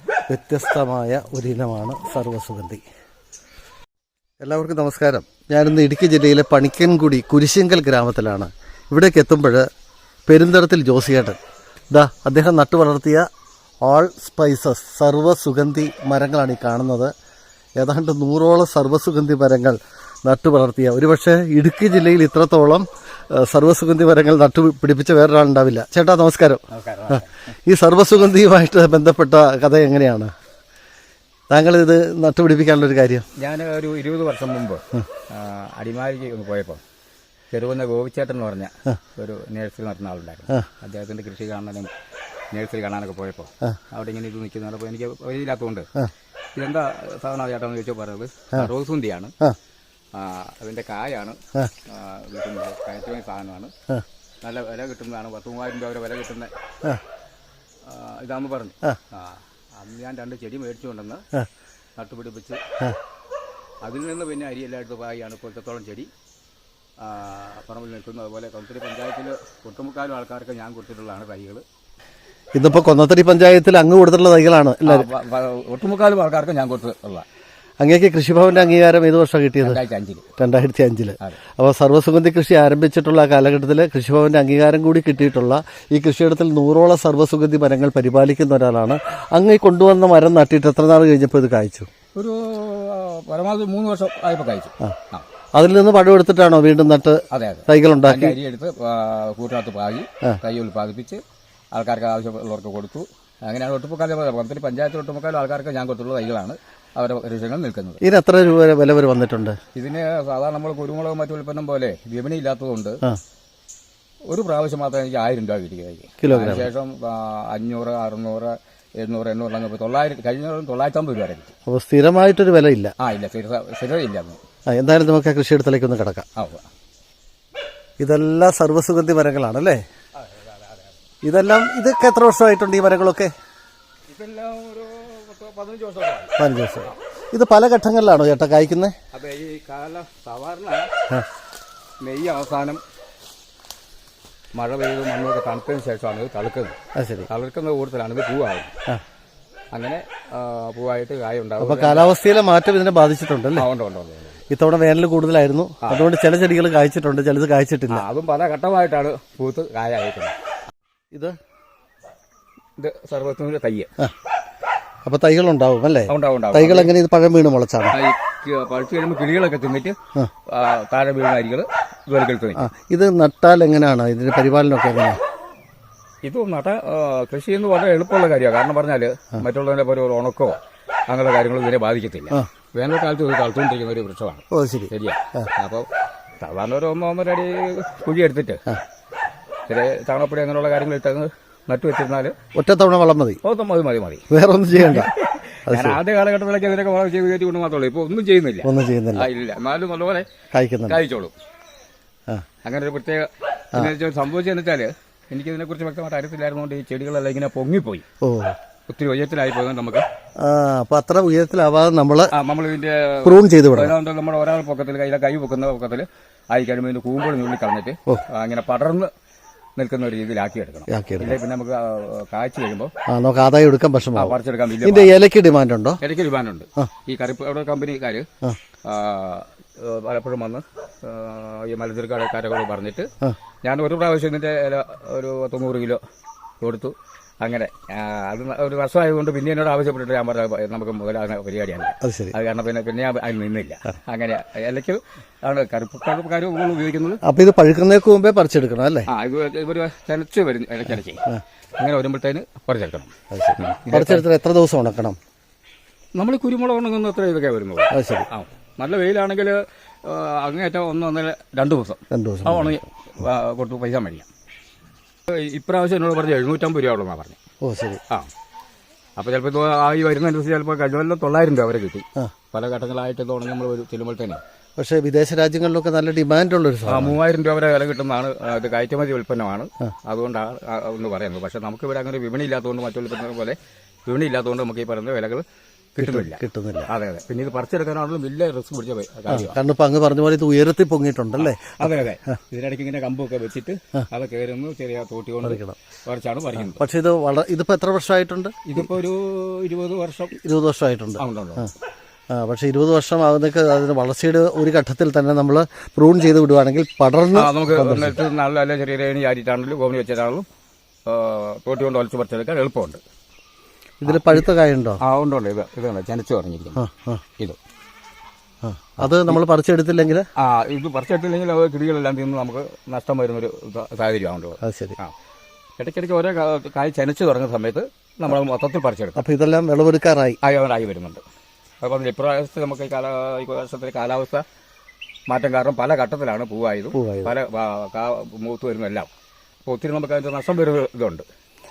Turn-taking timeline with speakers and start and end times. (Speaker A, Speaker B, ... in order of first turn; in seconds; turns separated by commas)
Speaker A: 0.3-2.8, Speaker A: 4.4-9.6, Speaker A: 10.3-11.4, Speaker A: 11.9-13.2, Speaker A: 13.8-17.1, Speaker A: 17.8-30.3, Speaker B: 26.7-27.3, Speaker A: 31.5-33.2, Speaker B: 33.4-36.8, Speaker B: 37.5-41.9, Speaker B: 42.5-45.9, Speaker B: 46.6-49.3, Speaker B: 50.1-53.7, Speaker B: 54.4-56.5, Speaker B: 57.8-61.2, Speaker B: 62.0-62.6, Speaker B: 63.8-66.1, Speaker B: 67.0-71.6, Speaker A: 72.5-75.1, Speaker B: 74.8-77.2, Speaker A: 77.8-79.8, Speaker B: 79.6-80.3, Speaker A: 80.4-91.9, Speaker B: 92.1-95.3, Speaker A: 95.5-98.4, Speaker B: 97.3-101.2, Speaker B: 101.7-108.0, Speaker A: 108.0-109.5, Speaker B: 109.7-113.0, Speaker B: 114.3-121.5, Speaker A: 116.2-116.7, Speaker A: 121.7-123.0, Speaker B: 123.0-124.4, Speaker A: 124.7-126.3, Speaker B: 126.4-126.7, Speaker A: 128.0-129.8, Speaker B: 130.2-130.9, Speaker A: 131.2-133.3, Speaker B: 134.1-137.0, Speaker A: 136.4-138.9, Speaker B: 139.1-140.9, Speaker B: 142.0-142.8, Speaker B: 144.5-146.8, Speaker A: 147.0-147.3, Speaker B: 147.3-148.7, Speaker B: 149.7-152.1, Speaker A: 151.6-153.7, Speaker B: 153.6-154.4, Speaker A: 154.5-158.1, Speaker B: 155.8-156.1, Speaker B: 157.9-160.4, Speaker B: 162.8-163.9, Speaker A: 165.1-167.9, Speaker B: 166.1-166.9, Speaker B: 167.9-170.0, Speaker B: 170.5-172.7, Speaker A: 172.6-175.2, Speaker B: 176.2-180.6, Speaker B: 181.1-185.9, Speaker A: 184.5-185.5, Speaker B: 186.4-188.6, Speaker B: 189.7-192.3, Speaker A: 192.6-193.4, Speaker B: 193.4-194.2, Speaker A: 194.3-195.1, Speaker B: 194.8-200.3, Speaker A: 195.7-196.0, Speaker A: 198.6-199.3, Speaker A: 200.5-201.0, Speaker B: 200.9-201.3, Speaker B: 202.6-208.1, Speaker A: 208.2-208.6, Speaker B: 208.9-210.1, Speaker A: 210.4-212.3, Speaker B: 212.3-219.1, Speaker A: 213.2-214.0, Speaker B: 219.8-222.9, Speaker A: 220.9-221.4, Speaker A: 223.1-226.0, Speaker B: 224.2-225.1, Speaker B: 226.0-228.3, Speaker B: 228.8-233.1, Speaker B: 233.6-236.0, Speaker B: 236.6-247.2, Speaker A: 242.0-242.3, Speaker A: 247.2-249.1, Speaker B: 249.1-251.2, Speaker B: 251.8-254.2, Speaker A: 253.3-255.2, Speaker B: 256.2-264.3, Speaker A: 257.9-258.2, Speaker A: 262.1-262.8, Speaker B: 265.3-267.4, Speaker A: 267.6-268.0, Speaker B: 269.2-274.4, Speaker A: 274.8-277.2, Speaker B: 276.9-285.4, Speaker B: 285.9-289.6, Speaker A: 286.0-286.9, Speaker A: 289.3-291.9, Speaker B: 291.4-296.8, Speaker A: 295.4-295.8, Speaker A: 296.6-298.9, Speaker B: 298.7-300.4, Speaker A: 300.4-301.7, Speaker B: 301.2-301.7, Speaker A: 302.3-308.2, Speaker B: 307.4-310.4, Speaker B: 311.1-313.0, Speaker A: 314.0-315.0, Speaker B: 314.1-314.5, Speaker B: 315.0-316.8, Speaker A: 316.8-317.2, Speaker A: 318.6-320.2, Speaker B: 319.0-319.4, Speaker B: 320.4-325.1, Speaker A: 324.6-325.0, Speaker B: 325.8-329.2, Speaker A: 329.2-330.4, Speaker B: 330.4-331.2, Speaker B: 331.8-334.4, Speaker B: 335.3-339.1, Speaker A: 336.9-337.4, Speaker B: 339.6-341.2